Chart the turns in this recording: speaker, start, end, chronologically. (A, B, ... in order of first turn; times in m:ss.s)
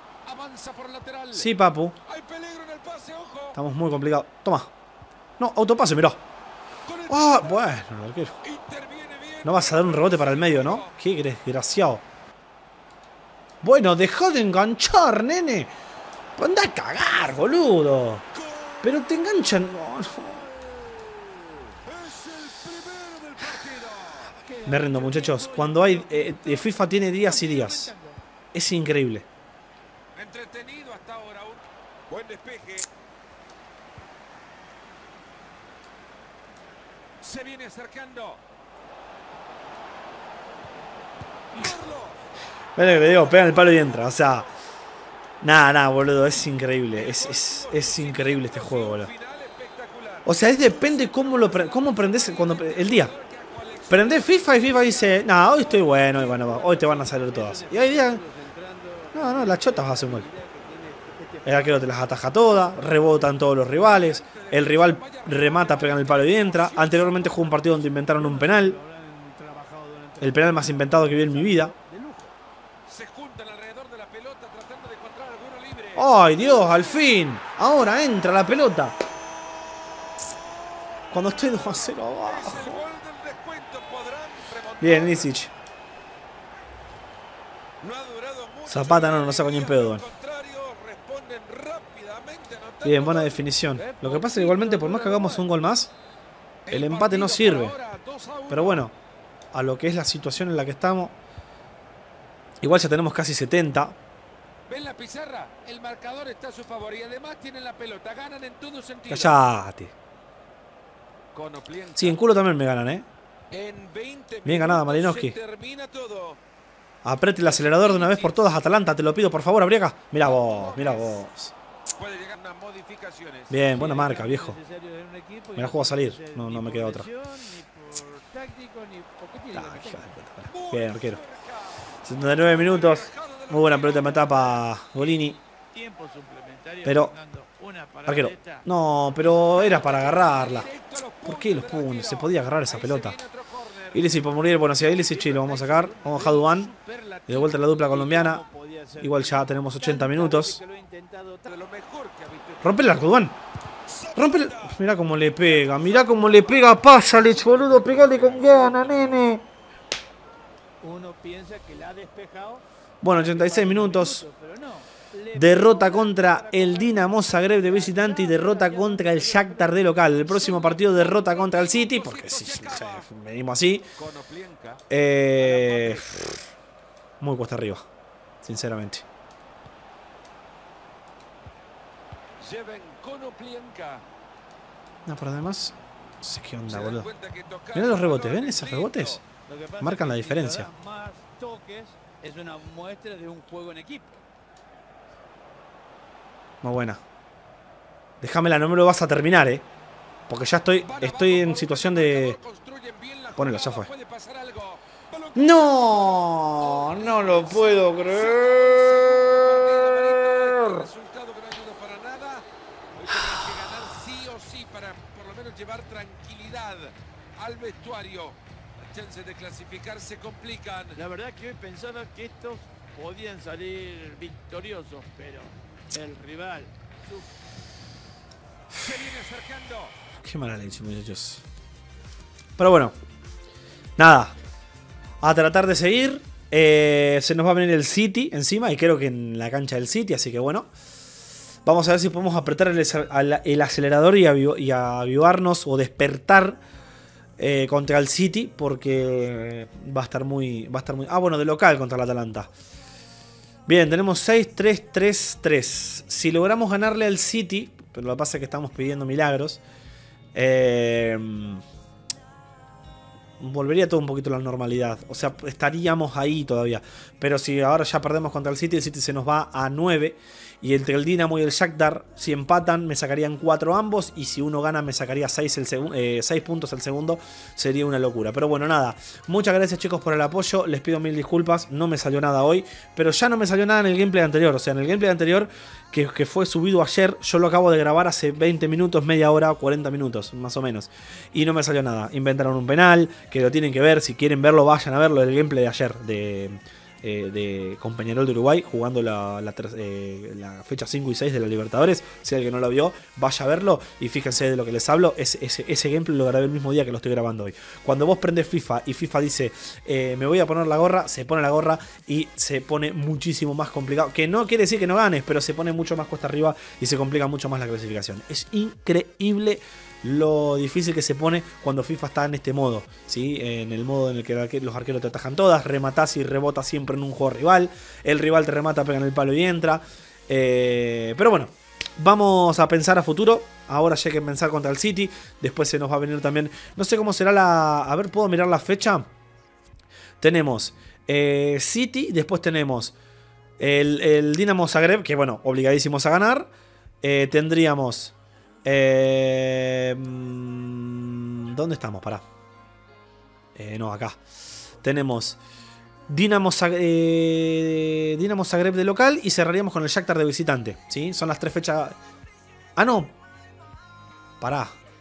0:00.2-0:03.6 A
0:01.3-0:02.0 B
0:03.5-0:04.7 B
0:05.4-0:06.2 B
0:06.8-0:07.7 A
0:07.1-0:08.3 B
0:08.4-0:10.9 A
0:09.4-0:12.0 B
0:13.6-0:15.7 B
0:16.4-0:18.2 B
0:18.8-0:20.5 B
0:21.7-0:24.4 A
0:24.3-0:28.2 C
0:24.6-0:27.9 B
0:28.5-0:29.2 B
0:30.1-0:32.9 A
0:37.2-0:38.4 A
0:41.5-0:42.2 A
0:42.8-0:44.5 B
0:43.0-0:44.4 A
0:45.4-0:49.1 B
0:46.9-0:55.8 A
0:50.2-0:53.1 B
0:53.9-0:58.2 B
0:55.8-1:02.0 C
0:59.1-1:00.3 B
1:01.4-1:08.8 B
1:03.7-1:07.9 A
1:08.1-1:12.3 C
1:10.2-1:11.7 B
1:12.8-1:17.2 A
1:16.0-1:19.0 B
1:20.8-1:21.6 A
1:21.1-1:22.8 B
1:22.2-1:25.3 A
1:24.8-1:25.5 B
1:27.8-1:34.5 A
1:28.6-1:30.0 B
1:32.8-1:35.9 B
1:34.0-1:35.5 C
1:36.6-1:38.9 A
1:36.7-1:37.8 B
1:38.5-1:38.9 B
1:39.5-1:41.2 B
1:42.6-1:44.0 B
1:44.7-1:49.4 A
1:49.1-1:49.9 B
1:51.3-1:52.2 A
1:52.0-1:53.1 B
1:53.5-1:56.4 A
1:54.4-1:55.4 B
1:57.0-2:01.5 B
1:57.4-1:58.5 A
2:00.2-2:01.2 A
2:01.9-2:03.6 A
2:03.5-2:04.6 B
2:03.7-2:10.1 C
2:05.6-2:07.1 B
2:09.5-2:11.2 B
2:10.5-2:11.9 A
2:12.0-2:15.4 B
2:12.4-2:14.7 A
2:15.7-2:18.7 C
2:16.8-2:17.1 B
2:18.0-2:20.7 B
2:19.4-2:27.8 A
2:21.2-2:23.2 B
2:23.9-2:26.7 B
2:27.3-2:28.4 B
2:27.8-2:31.5 C
2:29.0-2:30.6 B
2:31.4-2:33.0 A
2:32.6-2:33.4 B
2:33.8-2:34.9 A
2:34.1-2:39.4 B
2:35.5-2:36.8 A
2:37.1-2:39.0 C
2:37.9-2:38.2 A
2:40.8-2:50.1 C
2:43.0-2:44.2 B
2:45.3-2:53.9 B
2:50.3-2:53.1 A
2:53.9-2:54.8 A
2:54.9-2:56.3 B
2:55.4-2:56.3 A
2:57.2-2:57.8 B
2:58.4-2:59.0 B
3:02.4-3:04.0 A
3:05.0-3:07.1 B
3:06.7-3:09.2 A
3:07.7-3:09.2 B
3:09.5-3:14.2 C
3:09.8-3:10.7 B
3:16.6-3:17.0 B
3:18.2-3:19.6 B
3:20.3-3:22.4 B
3:20.8-3:41.0 A
3:23.4-3:23.9 B
3:25.3-3:30.8 B
3:40.9-3:47.3 C
3:48.7-3:49.9 A
3:50.2-3:51.4 B
3:52.6-3:52.9 B
3:54.0-3:54.3 B
3:55.2-4:00.7 B
4:01.6-4:06.6 B
4:07.4-4:12.5 B
4:13.7-4:19.6 B
4:20.3-4:21.6 B
4:23.4-5:39.1 B
5:40.2-5:42.9 B
5:43.6-5:46.5 B
5:47.0-5:52.2 B
5:53.5-5:54.2 B
5:54.8-5:55.4 B
5:56.1-6:02.0 B
6:02.8-6:03.1 B
6:04.4-6:04.7 B